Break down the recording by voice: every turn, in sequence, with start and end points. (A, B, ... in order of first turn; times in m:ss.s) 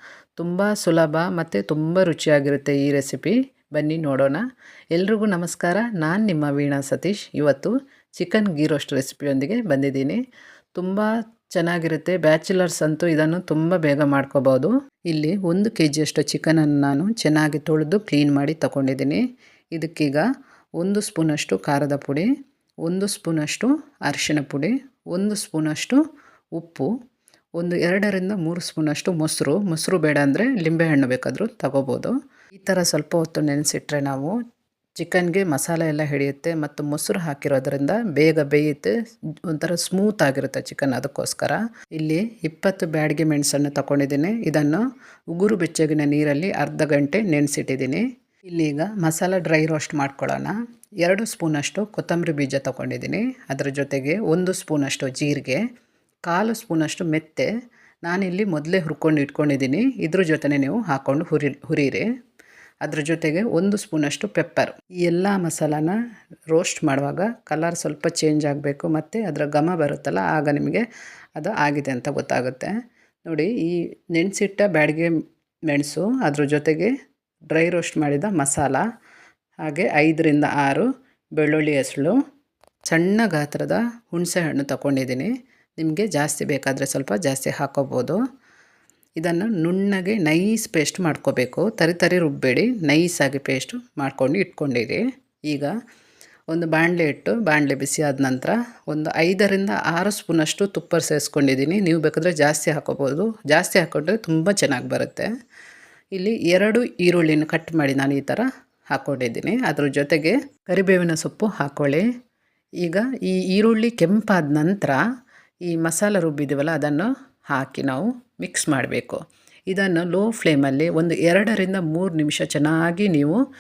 0:00.4-0:04.4 A
0:05.0-0:10.2 A
0:10.8-0:19.2 A
0:19.8-0:20.3 A
0:20.8-0:22.3 A
0:22.8-0:26.0 A
0:26.6-0:26.9 A
0:27.6-0:34.4 A
0:35.0-0:38.9 A
0:39.5-0:44.8 A
0:45.3-0:55.6 A
0:56.3-0:57.5 A
0:58.1-1:02.1 A
1:02.8-1:06.0 A
1:06.5-1:12.7 A
1:13.2-1:15.1 A
1:15.7-1:16.9 A
1:17.5-1:18.8 A
1:19.7-1:22.2 A
1:22.9-1:28.2 A
1:29.2-1:35.7 A
1:36.5-1:45.3 A
1:46.1-1:52.1 A
1:52.8-1:55.0 A
1:55.6-2:03.4 A